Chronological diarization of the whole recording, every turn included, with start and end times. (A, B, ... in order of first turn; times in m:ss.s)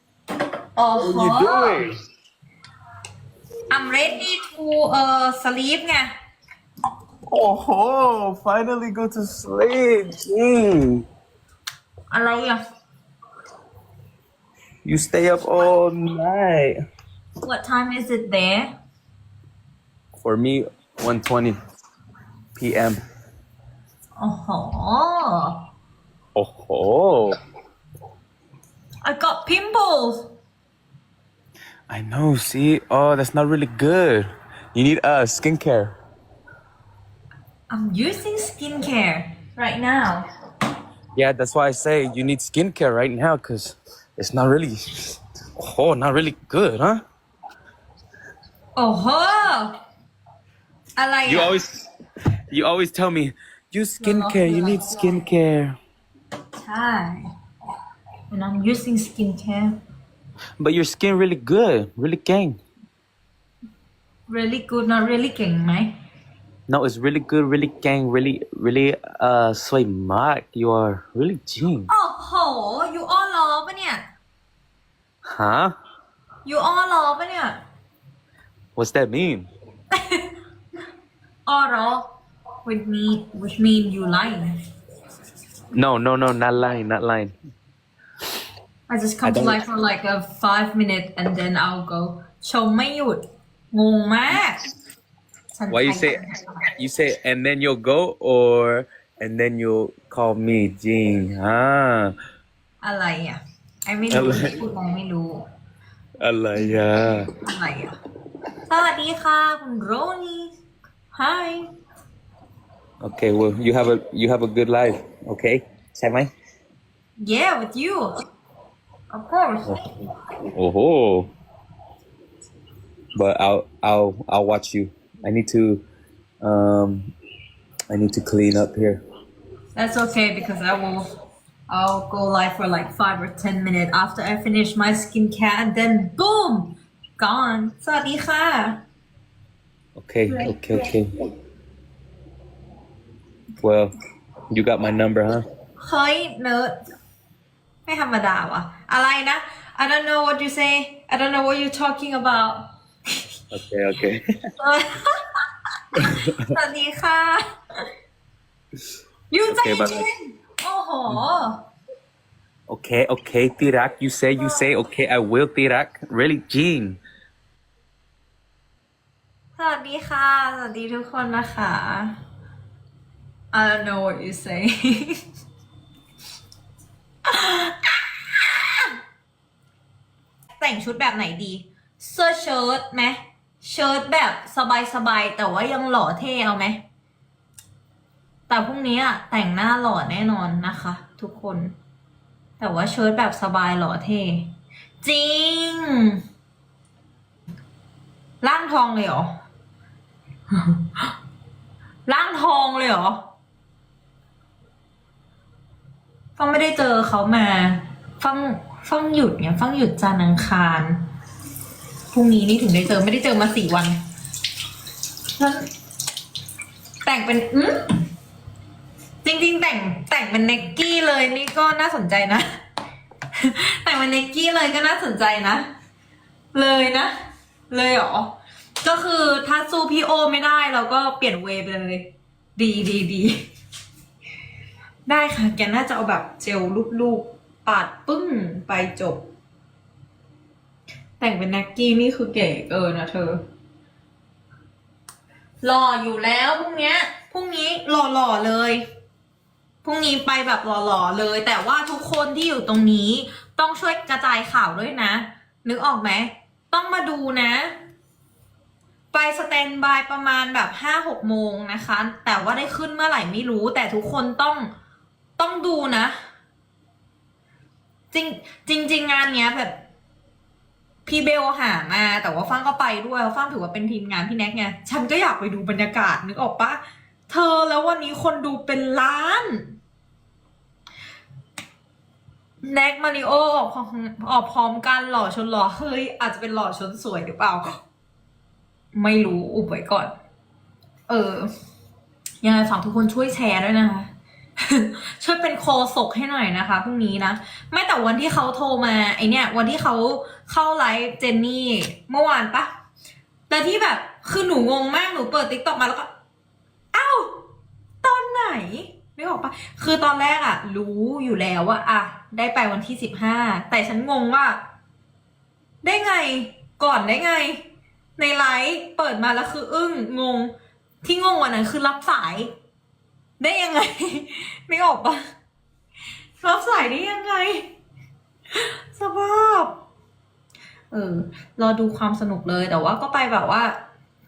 0:00.8-0:01.8 A
0:01.0-0:01.9 B
0:03.7-0:06.1 A
0:07.3-0:11.1 B
0:12.1-0:12.6 A
0:14.8-0:16.8 B
0:17.4-0:18.7 A
0:20.2-0:21.6 B
0:22.6-0:23.0 B
0:24.2-0:25.6 A
0:26.4-0:27.4 B
0:29.0-0:30.3 A
0:31.9-0:36.0 B
0:37.7-0:40.3 A
0:41.2-0:47.0 B
0:48.8-0:49.8 A
0:51.0-0:51.6 A
0:51.3-0:51.9 B
0:52.5-0:55.8 B
0:54.0-0:55.1 A
0:56.6-0:57.3 A
0:58.3-0:59.8 A
1:00.6-1:02.6 B
1:04.3-1:05.9 A
1:06.7-1:11.9 B
1:11.9-1:14.0 A
1:15.3-1:15.7 B
1:16.4-1:17.6 A
1:18.8-1:19.5 B
1:19.9-1:20.3 A
1:21.5-1:22.1 A
1:22.6-1:24.5 A
1:25.7-1:27.3 B
1:28.9-1:34.6 A
1:29.2-1:29.6 B
1:35.5-1:36.7 A
1:35.7-1:36.2 B
1:36.8-1:42.1 B
1:42.8-1:45.5 A
1:44.1-1:44.6 B
1:46.2-1:47.3 B
1:47.3-1:48.0 A
1:48.7-1:50.5 A
1:51.1-1:51.7 A
1:53.0-1:56.3 B
1:57.2-1:58.1 A
1:59.1-1:59.9 A
2:00.5-2:01.3 B
2:03.2-2:05.8 B
2:06.4-2:07.1 B
2:07.9-2:09.0 B
2:09.8-2:11.1 A
2:11.7-2:18.8 A
2:20.0-2:21.1 B
2:20.3-2:20.9 A
2:23.6-2:23.9 B
2:24.5-2:25.4 B
2:25.8-2:26.8 A
2:27.9-2:33.2 A
2:33.5-2:34.2 B
2:34.6-2:35.2 A
2:36.0-2:37.4 A
2:36.0-2:36.3 B
2:39.3-2:41.6 A
2:39.5-2:40.1 B
2:42.7-2:47.0 B
2:49.6-2:52.2 A
2:53.5-2:55.2 A
2:57.3-2:58.9 A
3:00.6-3:06.8 A
3:08.5-3:11.8 A
3:12.6-3:14.5 A
3:15.0-3:16.2 A
3:18.4-3:19.3 A
3:20.5-3:21.1 A
3:22.1-3:23.2 A
3:26.4-3:31.0 A
3:32.1-3:34.0 A
3:35.4-3:35.7 A
3:37.0-3:37.9 A
3:39.2-3:42.5 A
3:43.4-3:45.7 A
3:46.5-3:47.1 A
3:47.7-3:53.4 A
3:55.1-3:59.3 A
4:01.2-4:03.4 A
4:05.6-4:08.8 A
4:09.8-4:17.7 A
4:19.1-4:24.7 A
4:25.4-4:26.1 A
4:28.1-4:29.8 A
4:31.1-4:39.8 A
4:42.6-4:47.8 A
4:48.9-4:50.1 A
4:51.1-4:51.5 A
4:52.4-5:02.7 A
5:03.5-5:06.1 A
5:06.9-5:07.4 A
5:08.0-5:14.6 A
5:15.8-5:17.6 A
5:18.2-5:22.5 A
5:23.4-5:25.2 A
5:26.4-5:27.7 A
5:28.5-5:29.8 A
5:30.9-5:33.8 A